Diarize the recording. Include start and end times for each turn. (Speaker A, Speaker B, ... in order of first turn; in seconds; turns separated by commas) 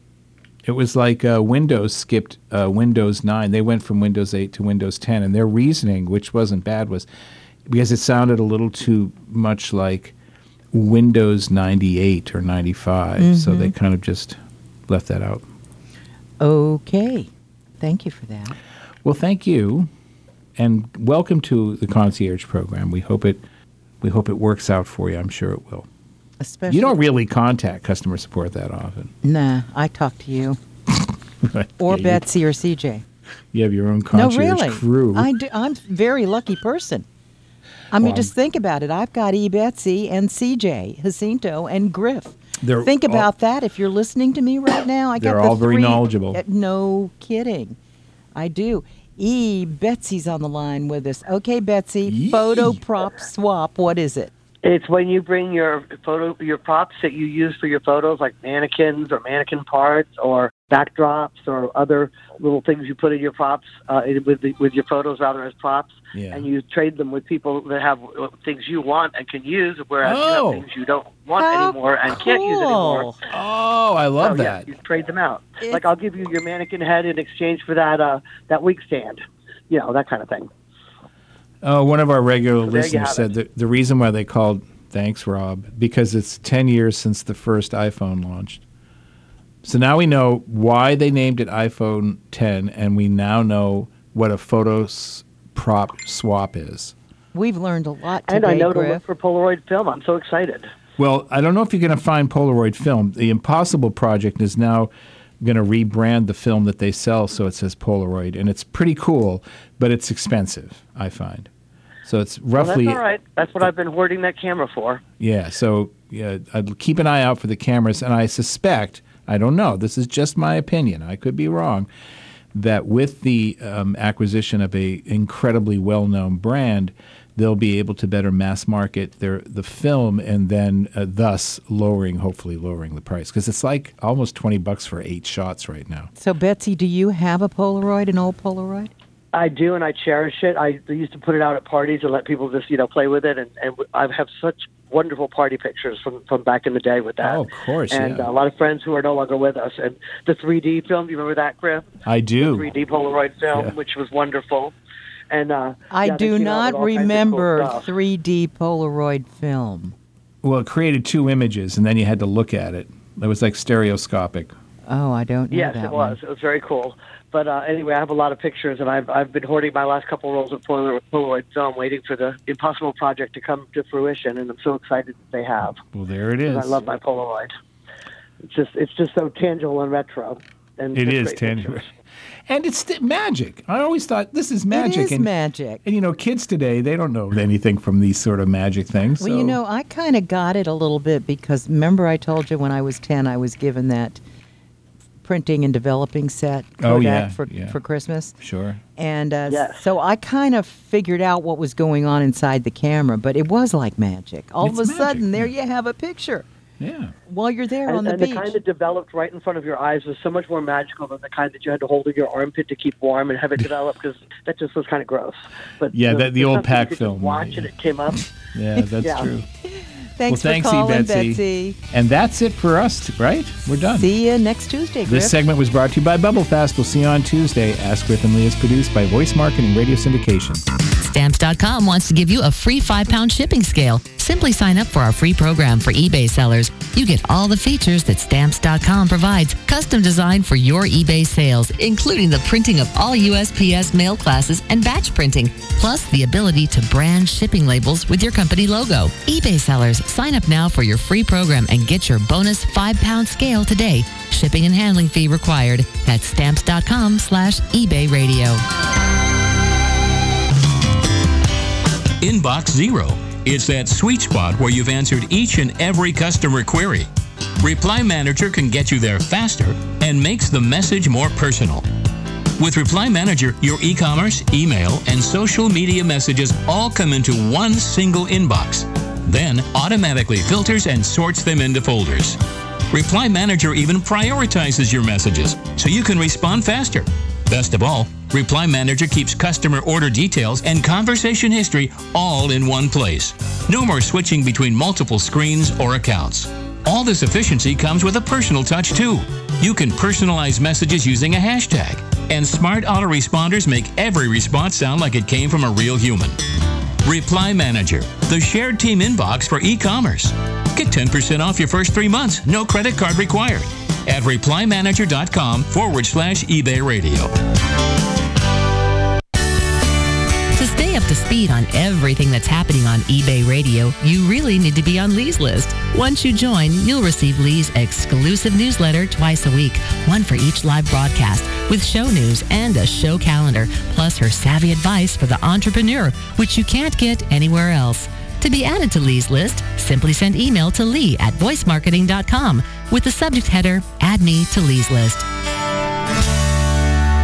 Speaker A: 0.6-7.1, Speaker A: 7.7-10.1, Speaker A: 10.7-15.4, Speaker B: 13.2-13.7, Speaker B: 16.4-17.3, Speaker B: 17.8-18.6, Speaker A: 19.0-19.9, Speaker A: 20.6-23.4, Speaker A: 24.0-25.9, Speaker B: 26.4-27.0, Speaker A: 26.7-29.1, Speaker B: 29.2-30.6, Speaker A: 31.4-32.2, Speaker B: 31.8-33.0, Speaker A: 33.5-35.3, Speaker B: 34.1-37.0, Speaker B: 37.9-47.8, Speaker A: 38.0-38.3, Speaker A: 42.6-43.3, Speaker A: 45.2-46.4, Speaker B: 48.3-54.3, Speaker A: 52.0-52.8, Speaker C: 54.6-73.1, Speaker A: 66.1-66.5, Speaker A: 70.0-70.6, Speaker B: 71.3-73.2, Speaker A: 73.3-74.7, Speaker C: 74.2-80.5, Speaker A: 81.6-88.6, Speaker C: 82.7-83.3, Speaker A: 89.6-96.9, Speaker B: 97.3-99.0, Speaker C: 98.3-100.7, Speaker A: 101.0-111.5, Speaker A: 112.0-113.0, Speaker C: 112.5-115.0, Speaker A: 115.2-121.9, Speaker A: 122.5-136.1, Speaker B: 136.2-138.9, Speaker C: 139.3-147.4, Speaker A: 147.2-148.3, Speaker C: 147.9-154.7, Speaker A: 152.0-152.7, Speaker C: 155.3-157.8, Speaker B: 155.9-159.9, Speaker A: 160.4-164.5, Speaker B: 164.9-166.2, Speaker C: 165.5-175.8, Speaker A: 175.9-176.8, Speaker C: 176.5-177.5, Speaker C: 178.4-181.9, Speaker A: 180.9-181.8, Speaker A: 182.5-185.3, Speaker B: 184.7-185.8, Speaker A: 185.8-189.6, Speaker B: 189.2-194.2, Speaker B: 195.2-198.3, Speaker A: 196.8-197.8, Speaker A: 198.4-198.8, Speaker B: 198.9-206.5, Speaker C: 199.5-199.8, Speaker A: 204.6-205.5, Speaker A: 206.8-207.1, Speaker B: 207.3-208.6, Speaker C: 207.9-218.3, Speaker A: 215.9-217.7, Speaker A: 218.4-219.5, Speaker C: 219.0-219.3, Speaker B: 219.6-221.8, Speaker A: 220.3-224.1, Speaker B: 223.9-225.3, Speaker A: 225.1-230.6, Speaker D: 231.0-258.6, Speaker E: 262.2-267.1, Speaker E: 267.6-271.9, Speaker E: 272.6-282.4, Speaker E: 282.9-306.4, Speaker E: 307.0-317.3, Speaker D: 320.6-345.2